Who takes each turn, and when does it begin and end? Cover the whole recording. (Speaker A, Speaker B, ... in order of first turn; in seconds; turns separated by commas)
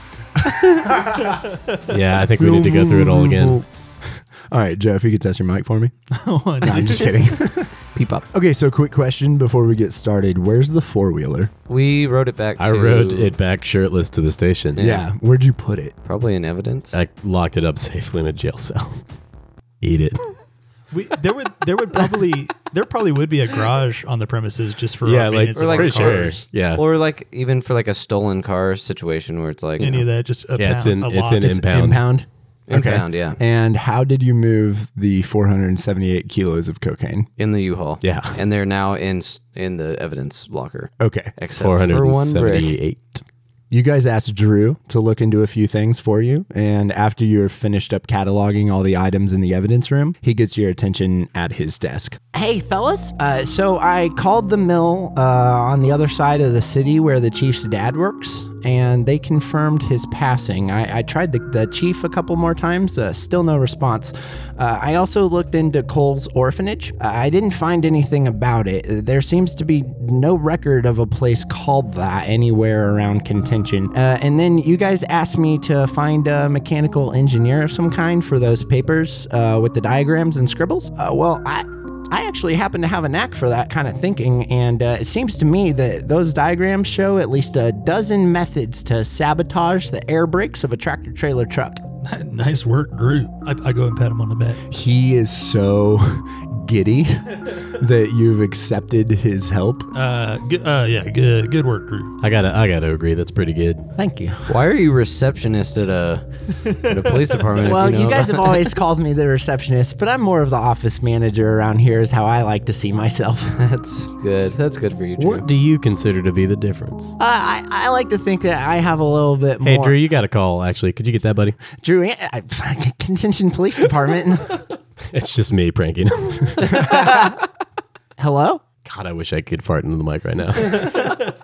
Speaker A: 0.4-1.3, Speaker B: 0.7-1.8, Speaker C: 1.9-3.6, Speaker A: 2.4-5.9, Speaker B: 6.1-7.4, Speaker A: 6.6-7.7, Speaker D: 7.9-8.2, Speaker A: 8.3-11.5, Speaker D: 11.7-13.3, Speaker C: 12.6-14.8, Speaker D: 14.8-15.0, Speaker A: 14.8-15.9, Speaker D: 16.0-17.0, Speaker C: 16.9-19.0, Speaker C: 19.8-20.3, Speaker B: 20.9-26.4, Speaker C: 25.0-26.8, Speaker D: 25.5-30.1, Speaker B: 29.8-31.5, Speaker C: 30.6-32.1, Speaker A: 31.4-37.3, Speaker D: 32.7-33.4, Speaker D: 37.4-42.7, Speaker C: 38.0-38.4, Speaker A: 41.0-41.3, Speaker C: 41.6-43.2, Speaker A: 43.7-91.8, Speaker B: 92.0-94.6, Speaker A: 94.7-99.9, Speaker B: 99.9-102.1, Speaker C: 102.2-103.9, Speaker A: 104.0-104.6, Speaker D: 104.5-108.7, Speaker B: 106.6-107.4, Speaker A: 107.5-113.6, Speaker D: 113.5-115.5, Speaker C: 115.2-117.2, Speaker A: 117.2-120.0, Speaker C: 119.6-121.6, Speaker A: 121.7-124.6, Speaker C: 125.1-127.1, Speaker A: 126.6-127.4, Speaker A: 128.2-128.6, Speaker C: 128.8-131.2